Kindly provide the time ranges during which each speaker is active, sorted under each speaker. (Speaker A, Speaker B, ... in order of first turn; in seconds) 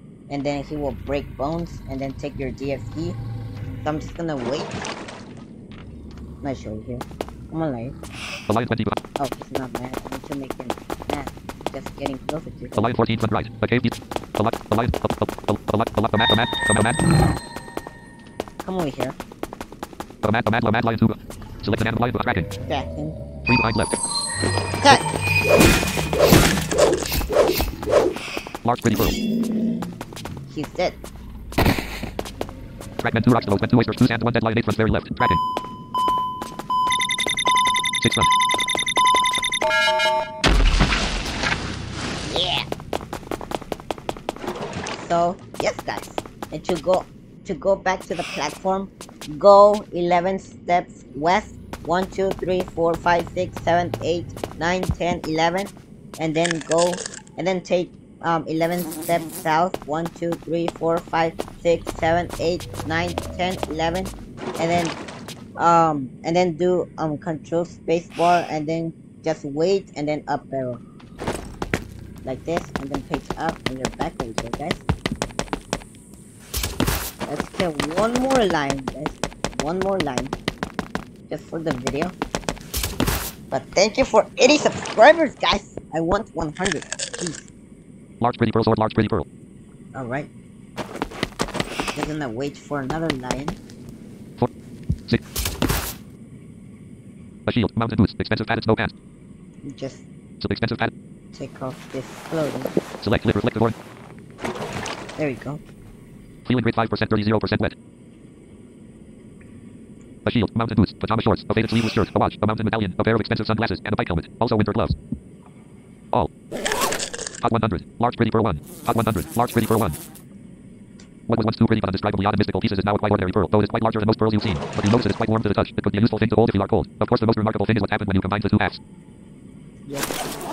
Speaker A: 0.3-3.2, 3.8-4.9, 6.4-8.0, 9.2-12.8, 18.6-19.2, 22.7-23.2, 30.5-31.0, 42.2-42.7, 44.9-65.0, 65.6-70.8, 72.2-74.8, 77.2-80.3, 81.3-82.1, 83.5-87.5, 89.9-90.3, 91.9-93.6, 99.6-100.0, 101.3-102.7, 105.2-105.6, 129.8-130.2
Speaker B: 8.5-9.0, 12.7-17.0, 20.2-22.5, 23.4-24.0, 28.6-29.2, 33.0-35.4, 38.0-38.3, 88.2-89.3, 97.5-98.9, 100.4-100.9, 103.0-103.7, 106.4-107.8, 110.2-114.9, 117.4-120.0, 121.3-128.8